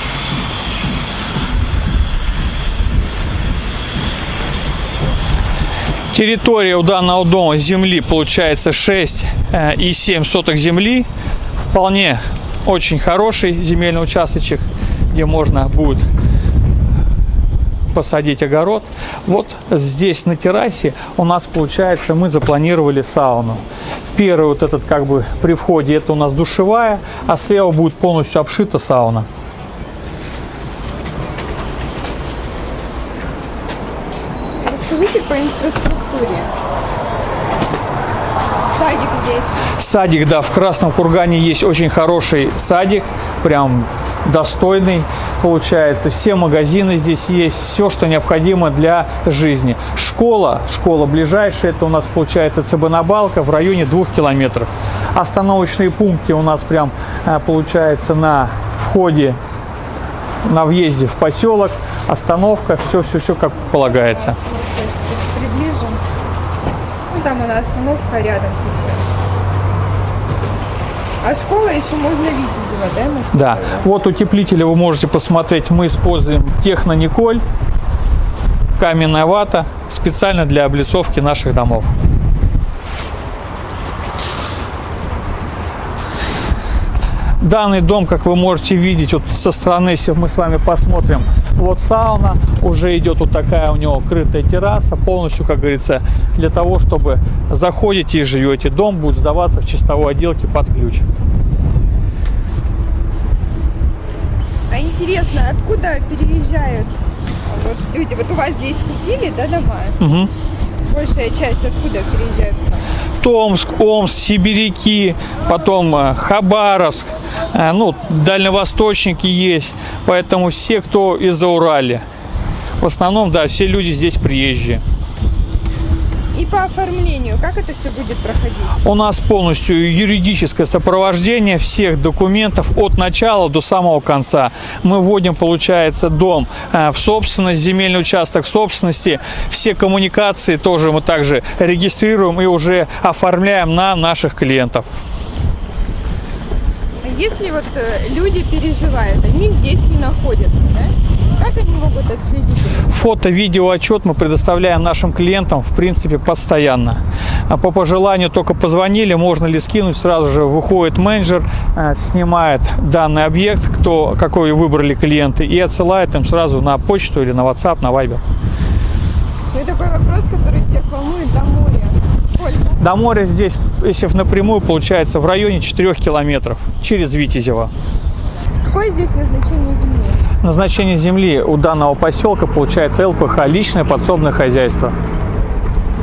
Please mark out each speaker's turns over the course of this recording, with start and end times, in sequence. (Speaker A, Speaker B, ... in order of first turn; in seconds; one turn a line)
Speaker A: 6.1-11.1
Speaker A: 11.6-16.0
Speaker A: 17.9-23.6
Speaker A: 24.1-29.3
Speaker B: 34.5-36.5
Speaker B: 38.5-39.6
Speaker A: 39.8-59.4
Speaker A: 60.4-64.4
Speaker B: 64.2-66.0
Speaker B: 67.1-69.0
Speaker B: 71.2-73.8
Speaker A: 73.3-77.4
Speaker A: 78.8-81.9
Speaker A: 87.4-101.0
Speaker B: 104.7-110.0
Speaker A: 110.0-110.3
Speaker B: 110.9-112.8
Speaker A: 113.2-122.0
Speaker A: 122.8-124.8
Speaker B: 126.3-128.8
Speaker A: 128.8-144.9
Speaker B: 147.0-153.0
Speaker A: 152.9-168.2
Speaker B: 169.5-172.8
Speaker A: 172.8-177.7
Speaker B: 178.7-180.2
Speaker A: 180.4-184.9